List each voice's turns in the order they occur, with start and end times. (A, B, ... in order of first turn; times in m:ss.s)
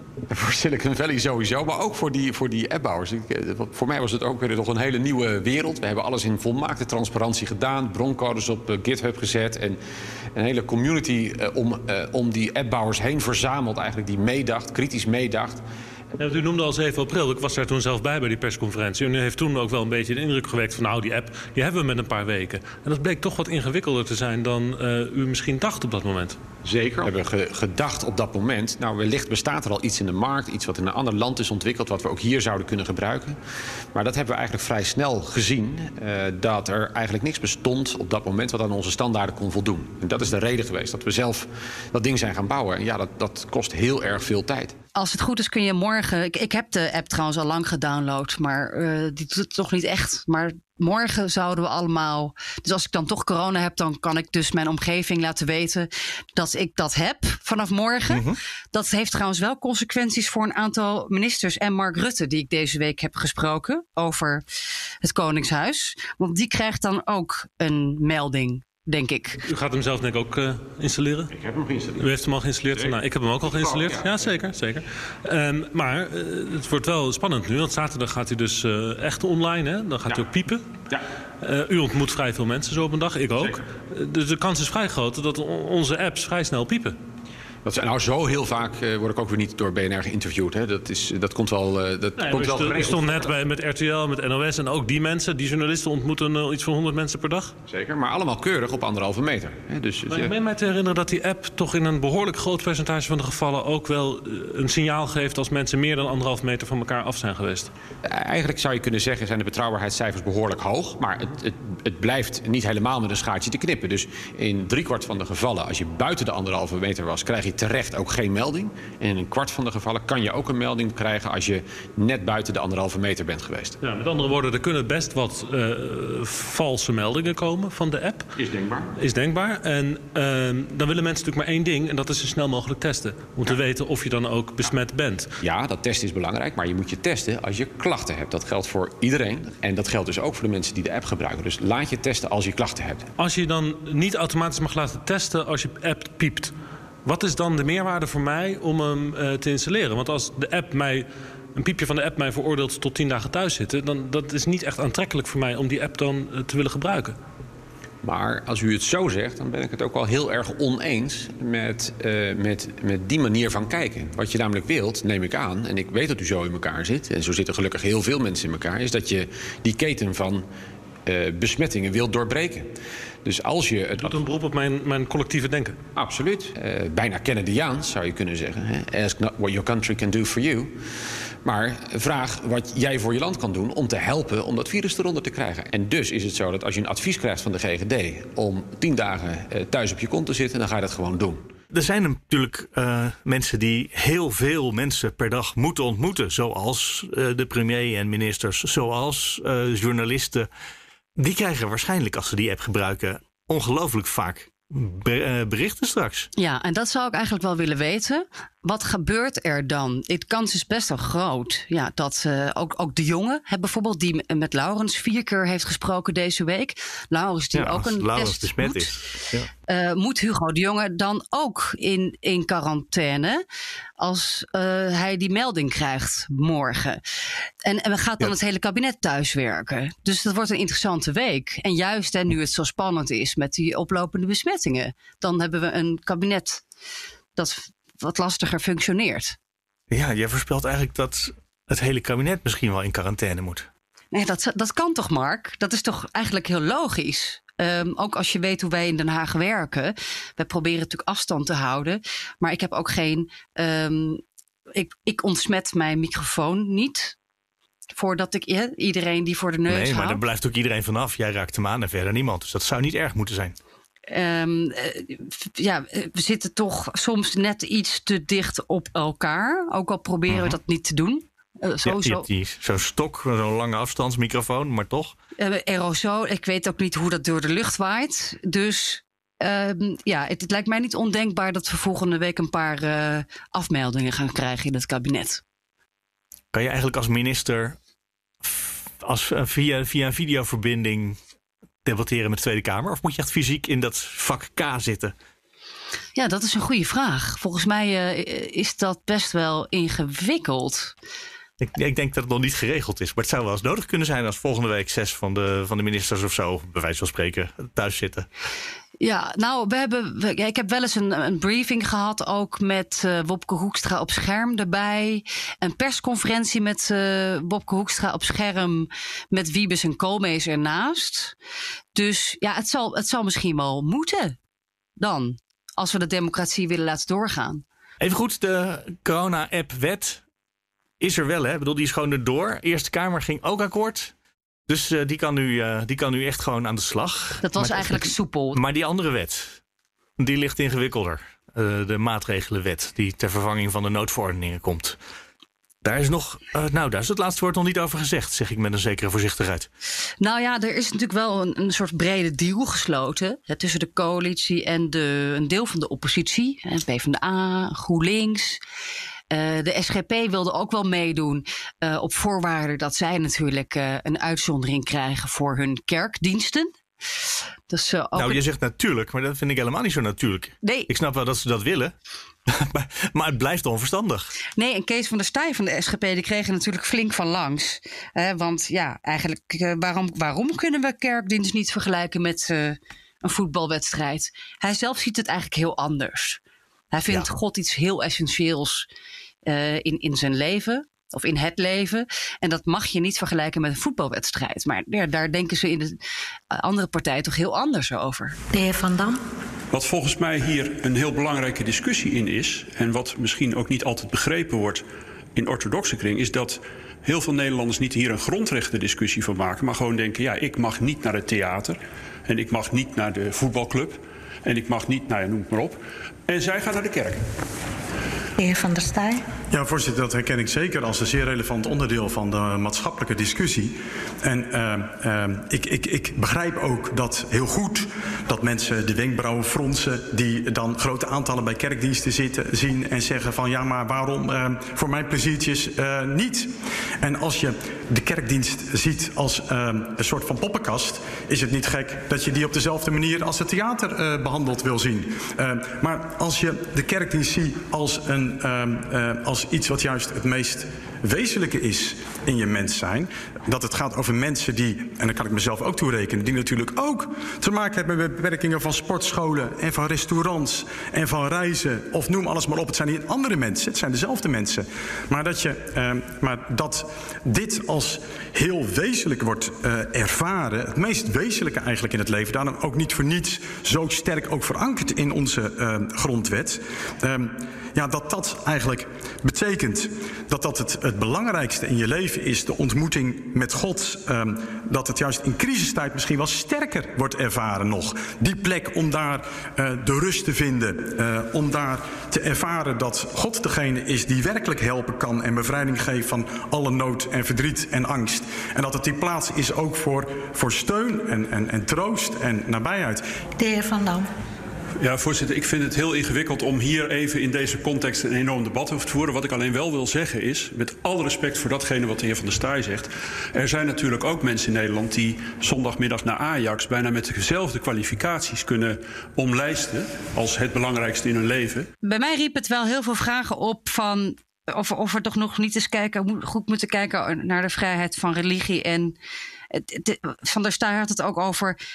0:00.3-0:09.8 A
0:10.3-0:15.6 A
0:16.2-0:26.4 B
0:26.6-0:33.4 A
0:33.9-0:44.8 A
0:44.9-1:04.4 C
0:58.1-0:58.4 D
1:05.0-1:09.4 C
1:09.4-1:11.3 B
1:11.3-1:12.1 A
1:12.0-1:20.7 B
1:12.7-1:14.3 A
1:21.4-1:27.0 B
1:27.6-1:33.3 A
1:32.2-1:37.5 B
1:37.7-1:40.3 A
1:40.1-1:47.7 B
1:48.0-2:03.8 A
2:03.8-2:08.3 B
2:08.4-2:08.9 A
2:09.0-2:15.3 B
2:15.4-2:23.1 A
2:23.2-2:26.5 B
2:27.0-2:37.2 B
2:38.0-2:50.4 A
2:51.0-2:52.7 A
2:53.2-2:54.2 A
2:54.0-2:55.8 B
2:55.9-3:00.8 A
3:01.4-3:11.5 A
3:11.7-3:20.5 D
3:21.2-3:26.3 D
3:26.4-3:38.9 C
3:37.5-3:39.5 D
3:39.6-3:43.4 C
3:44.0-3:47.0 C
3:47.6-3:56.6 C
3:57.4-3:59.4 C
3:59.9-4:03.7 D
4:04.1-4:14.2 C
4:14.7-4:17.2 C
4:17.9-4:20.2 C
4:19.7-4:23.6 D
4:24.1-4:32.2 C
4:30.3-4:30.6 D
4:31.8-4:35.1 D
4:35.4-4:45.4 C
4:46.5-4:47.8 D
4:48.4-4:51.2 D
4:51.8-4:55.1 D
4:56.2-5:00.9 C
5:01.6-5:08.3 D
5:09.0-5:21.4 C
5:21.9-5:24.4 C
5:25.0-5:27.6 C
5:28.0-5:30.2 D
5:31.0-5:34.1 D
5:34.7-5:39.6 D
5:37.4-5:38.6 C
5:40.2-5:45.0 D
5:45.8-5:49.7 D
5:50.2-5:58.6 C
5:59.3-6:06.7 C
6:07.7-6:08.4 C
6:08.1-6:11.9 D
6:10.6-6:10.9 C
6:12.5-6:14.3 D
6:14.6-6:26.4 C
6:26.9-6:28.9 C
6:29.4-6:36.0 C
6:36.5-6:38.3 C
6:38.5-6:39.2 E
6:39.7-6:44.8 F
6:45.3-6:57.2 F
6:58.4-6:59.2 E
6:59.5-8:23.0 G
8:23.4-8:24.1 E
8:24.8-8:41.7 F
8:41.8-8:49.0 C
8:49.5-8:51.6 C